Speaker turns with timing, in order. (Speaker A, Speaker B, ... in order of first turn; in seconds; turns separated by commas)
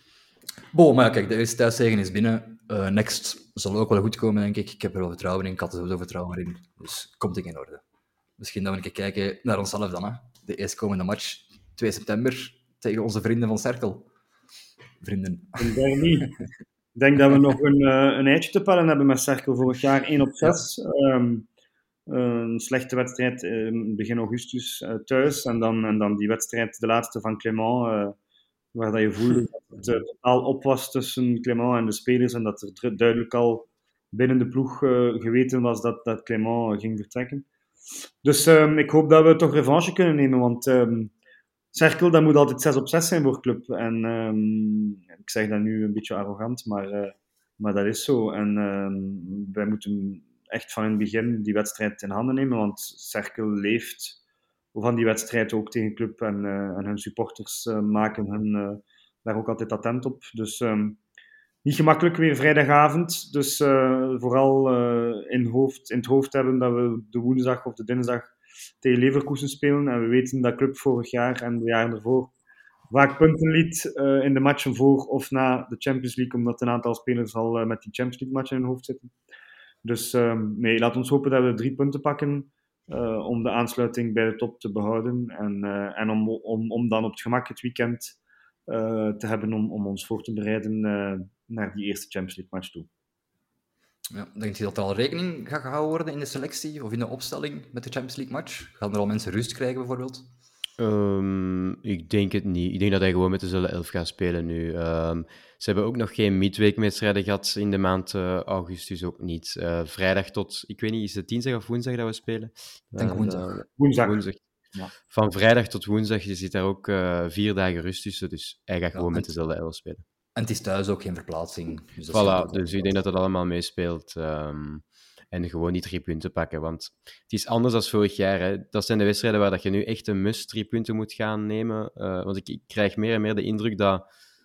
Speaker A: 0.7-7.8, Speaker A: 8.4-14.1, Speaker A: 15.0-15.7, Speaker B: 15.6-16.3, Speaker B: 16.9-21.4, Speaker B: 22.1-28.1, Speaker B: 28.7-37.5, Speaker B: 38.2-41.1, Speaker B: 41.7-54.2, Speaker B: 54.7-61.0, Speaker B: 61.6-72.3, Speaker B: 72.9-79.1, Speaker B: 79.8-92.9, Speaker A: 94.1-100.2, Speaker C: 100.8-114.4, Speaker A: 113.0-113.6, Speaker B: 113.8-114.2, Speaker C: 115.0-120.0, Speaker A: 118.9-119.3, Speaker A: 120.3-123.0, Speaker C: 122.1-134.1